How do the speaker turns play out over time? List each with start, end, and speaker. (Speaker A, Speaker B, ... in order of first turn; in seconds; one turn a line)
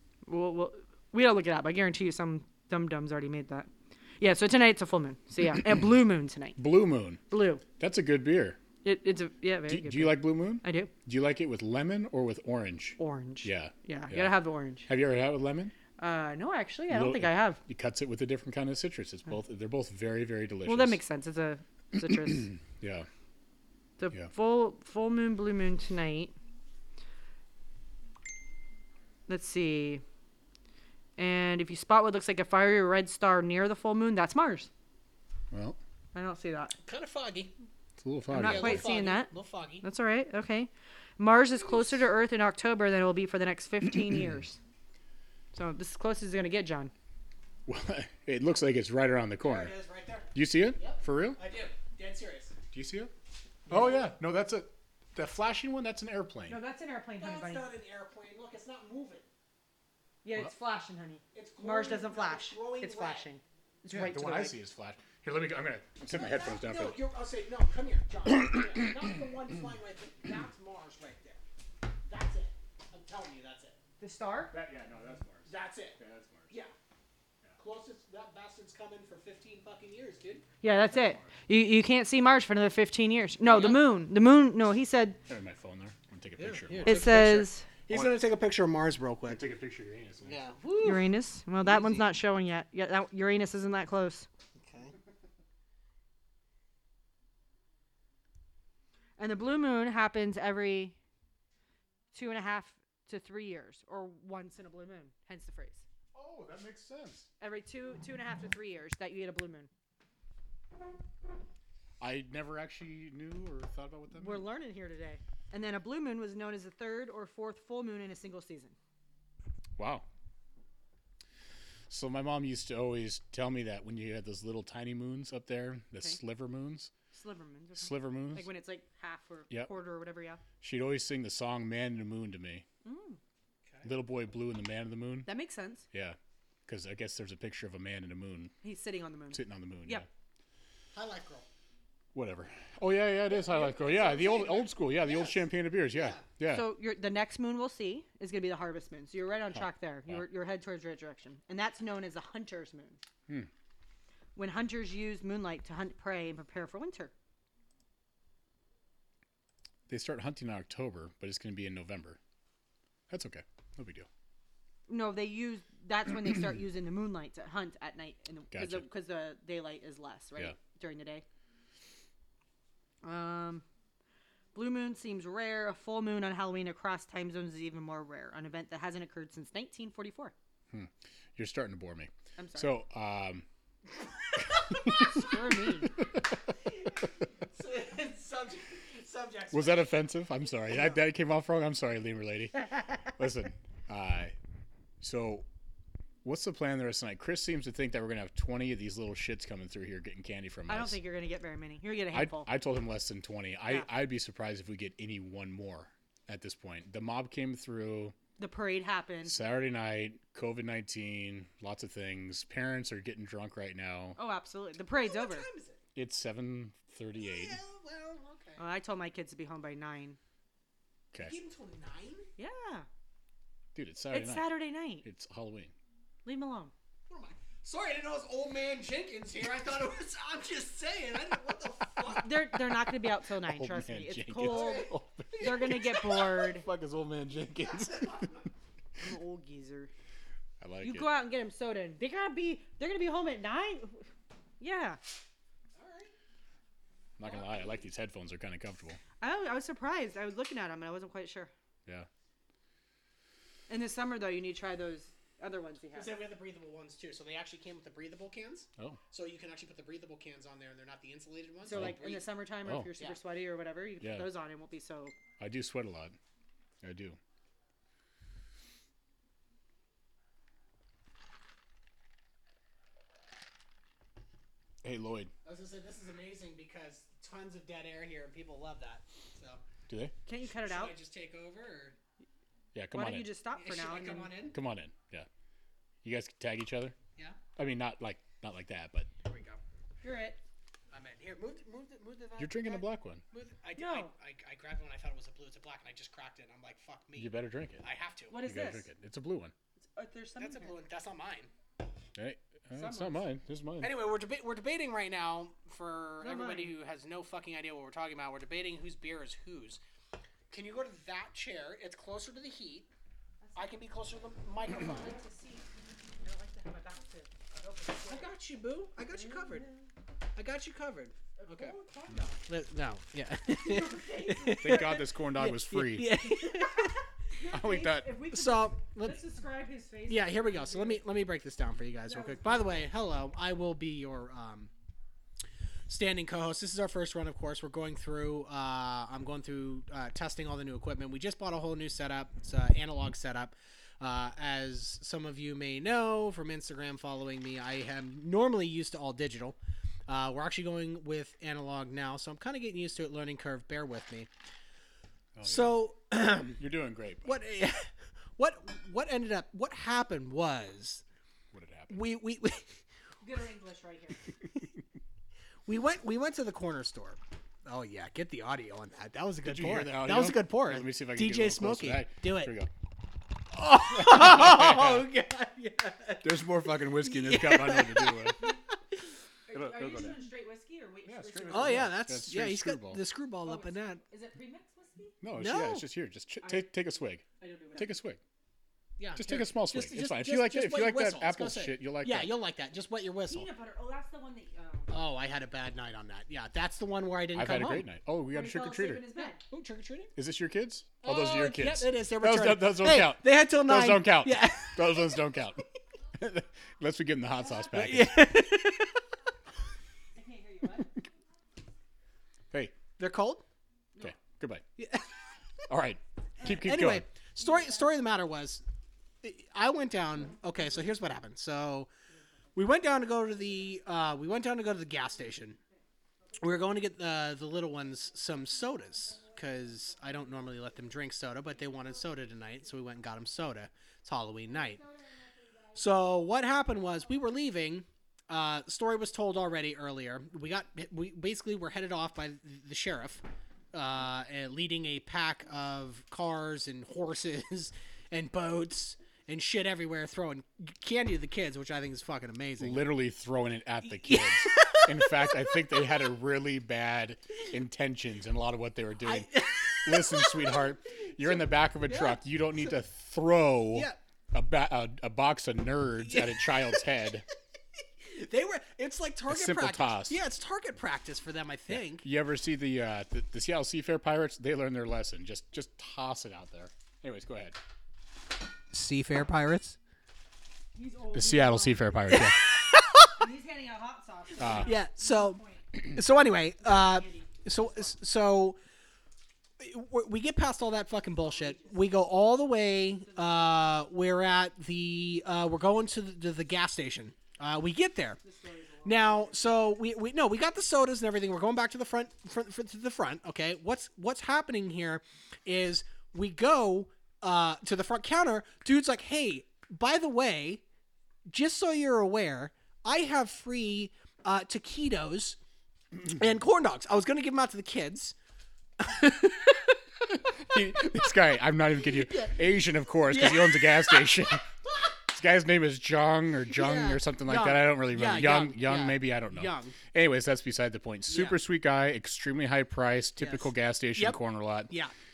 Speaker A: 0.2-3.7
Speaker A: 4.2-6.6
Speaker B: 6.6-7.2
Speaker A: 7.3-7.6
Speaker B: 7.8-8.6
Speaker A: 8.8-10.9
Speaker B: 9.7-15.7
Speaker A: 13.0-14.9
Speaker A: 16.0-17.6
Speaker B: 16.9-21.0
Speaker A: 20.7-22.5
Speaker B: 22.4-23.1
Speaker A: 24.0-26.3
Speaker A: 29.3-30.0
Speaker A: 31.2-34.7
Speaker B: 35.5-35.8
Speaker A: 36.1-36.8
Speaker C: 36.9-37.5
Speaker B: 38.0-38.9
Speaker A: 38.3-39.3
Speaker C: 38.4-39.9
Speaker A: 39.8-44.6
Speaker A: 45.5-46.9
Speaker B: 47.7-49.7
Speaker C: 49.4-52.5
Speaker B: 50.4-51.4
Speaker B: 52.7-53.1
Speaker C: 53.7-53.9
Speaker B: 53.7-56.6
Speaker A: 56.5-57.7
Speaker C: 57.2-59.2
Speaker A: 60.2-64.6
Speaker C: 61.3-63.3
Speaker B: 63.9-67.0
Speaker C: 66.5-71.4
Speaker C: 72.1-73.8
Speaker A: 74.0-74.5
Speaker B: 74.5-76.5
Speaker C: 75.5-76.0
Speaker C: 77.6-80.5
Speaker A: 80.6-85.2
Speaker B: 80.9-81.3
Speaker C: 83.5-83.8
Speaker B: 85.3-87.1
Speaker C: 86.4-89.4
Speaker A: 86.8-87.7
Speaker B: 89.2-90.4
Speaker C: 90.2-92.1
Speaker A: 90.8-94.3
Speaker C: 94.6-95.0
Speaker A: 99.2-101.0
Speaker A: 102.1-105.8
Speaker B: 106.1-107.3
Speaker A: 107.4-109.7
Speaker B: 112.0-114.5
Speaker A: 114.1-118.8
Speaker B: 119.8-120.1
Speaker B: 121.9-126.9
Speaker A: 127.1-130.4
Speaker B: 127.8-128.5
Speaker B: 130.6-132.6
Speaker A: 132.8-133.2
Speaker B: 133.8-135.3
Speaker A: 135.2-135.8
Speaker B: 135.9-138.5
Speaker A: 138.6-140.1
Speaker B: 139.3-140.1
Speaker C: 140.9-141.4
Speaker B: 142.1-146.7
Speaker C: 143.3-145.4
Speaker C: 145.9-146.2
Speaker A: 146.5-153.0
Speaker B: 149.6-150.2
Speaker A: 154.4-157.1
Speaker B: 159.9-162.2
Speaker B: 163.1-164.1
Speaker A: 164.9-171.2
Speaker B: 168.5-168.9
Speaker A: 173.0-173.6
Speaker A: 174.5-180.3
Speaker B: 180.7-183.5
Speaker A: 182.4-182.7
Speaker B: 184.7-185.3
Speaker A: 185.1-185.9
Speaker C: 186.6-189.9
Speaker B: 189.5-194.3
Speaker C: 190.5-190.9
Speaker B: 195.0-195.4
Speaker B: 196.2-201.0
Speaker A: 200.7-202.5
Speaker B: 202.1-208.2
Speaker A: 208.4-209.3
Speaker B: 209.2-214.2
Speaker A: 214.2-215.5
Speaker C: 215.0-215.8
Speaker B: 215.9-217.6
Speaker C: 217.2-218.6
Speaker A: 218.6-220.2
Speaker C: 221.2-222.3
Speaker A: 222.4-222.9
Speaker B: 223.8-225.7
Speaker A: 224.1-225.1
Speaker A: 226.2-226.7
Speaker C: 227.1-232.6
Speaker A: 232.0-236.7
Speaker B: 233.4-238.3
Speaker C: 234.4-235.6
Speaker C: 237.7-238.4
Speaker A: 239.0-239.9
Speaker B: 240.6-241.1
Speaker A: 240.8-244.1
Speaker A: 244.6-245.0
Speaker C: 245.8-246.1
Speaker B: 247.2-249.0
Speaker A: 249.2-251.5
Speaker A: 253.7-256.2
Speaker C: 255.9-262.2
Speaker A: 261.6-265.1
Speaker B: 261.7-262.0
Speaker B: 262.6-262.9
Speaker B: 264.0-264.3
Speaker B: 265.4-266.2
Speaker B: 266.8-267.2
Speaker B: 274.8-275.3
Speaker C: 275.4-279.6
Speaker B: 279.9-280.1
Speaker A: 280.2-281.0
Speaker C: 280.6-282.0
Speaker B: 282.7-283.3
Speaker A: 282.9-284.4
Speaker C: 283.6-284.6
Speaker B: 284.5-285.3
Speaker B: 286.0-287.0
Speaker B: 287.6-289.1
Speaker C: 289.2-289.6
Speaker A: 290.0-290.4
Speaker C: 290.9-298.4
Speaker B: 292.4-293.2
Speaker A: 293.8-294.1
Speaker B: 297.1-297.8
Speaker A: 298.3-298.9
Speaker B: 298.4-299.5
Speaker A: 299.9-300.7
Speaker C: 300.4-301.5
Speaker B: 302.1-303.9
Speaker A: 302.7-303.2
Speaker C: 303.8-309.8
Speaker A: 306.2-306.8
Speaker C: 310.5-312.9
Speaker A: 313.4-313.7
Speaker C: 313.5-315.1
Speaker A: 314.8-318.3
Speaker C: 318.0-319.7
Speaker A: 319.1-319.9
Speaker C: 320.4-321.8
Speaker A: 321.4-322.5
Speaker C: 322.5-326.9
Speaker A: 323.5-325.0
Speaker B: 324.6-326.2
Speaker A: 326.2-331.0
Speaker B: 327.5-328.2
Speaker C: 328.3-329.2
Speaker C: 330.1-334.7
Speaker A: 332.1-332.8
Speaker C: 335.9-349.6
Speaker C: 350.1-354.3
Speaker B: 355.4-355.7
Speaker C: 355.4-356.6
Speaker B: 356.6-357.4
Speaker C: 357.2-361.0
Speaker B: 361.5-362.0
Speaker C: 361.9-362.7
Speaker A: 363.2-364.2
Speaker C: 365.7-372.5
Speaker B: 369.4-372.7
Speaker C: 373.5-378.5
Speaker B: 373.9-375.1
Speaker B: 376.2-378.4
Speaker A: 379.5-382.0
Speaker B: 379.5-380.2
Speaker B: 381.1-383.0
Speaker C: 381.5-384.0
Speaker A: 383.4-385.1
Speaker B: 385.2-388.2
Speaker C: 385.4-385.8
Speaker A: 386.4-386.7
Speaker A: 387.4-388.0
Speaker C: 389.0-393.5
Speaker B: 389.1-392.4
Speaker A: 393.3-395.0
Speaker C: 394.9-397.9
Speaker B: 397.4-399.1
Speaker A: 398.3-399.4
Speaker C: 399.2-400.1
Speaker B: 400.1-405.6
Speaker C: 401.0-405.1
Speaker B: 406.2-408.3
Speaker C: 407.7-409.0
Speaker A: 410.1-410.9
Speaker B: 412.5-412.8
Speaker C: 413.0-413.4
Speaker B: 414.0-414.6
Speaker C: 414.8-415.1
Speaker B: 415.7-417.0
Speaker C: 416.4-418.6
Speaker A: 417.4-417.9
Speaker C: 419.2-421.9
Speaker C: 422.5-425.6
Speaker C: 426.4-434.8
Speaker C: 435.7-452.9
Speaker B: 452.6-467.3
Speaker C: 454.0-455.5
Speaker C: 459.0-462.2
Speaker C: 463.7-464.0
Speaker C: 466.1-466.8
Speaker C: 468.0-472.1
Speaker B: 469.3-470.2
Speaker B: 471.7-477.6
Speaker C: 478.7-479.8
Speaker A: 480.8-482.0
Speaker B: 481.1-482.4
Speaker C: 482.1-483.1
Speaker A: 483.2-485.6
Speaker B: 484.4-484.7
Speaker C: 484.5-488.6
Speaker A: 486.6-488.0
Speaker C: 489.6-498.2
Speaker A: 491.2-491.9
Speaker A: 493.0-493.6
Speaker A: 498.2-499.8
Speaker C: 498.9-510.6
Speaker C: 511.3-515.4
Speaker C: 516.1-518.1
Speaker C: 518.8-519.8
Speaker B: 520.2-524.4
Speaker C: 521.8-522.3
Speaker C: 523.1-524.1
Speaker B: 525.1-534.7
Speaker C: 526.5-529.8
Speaker C: 531.1-531.4
Speaker C: 533.2-534.9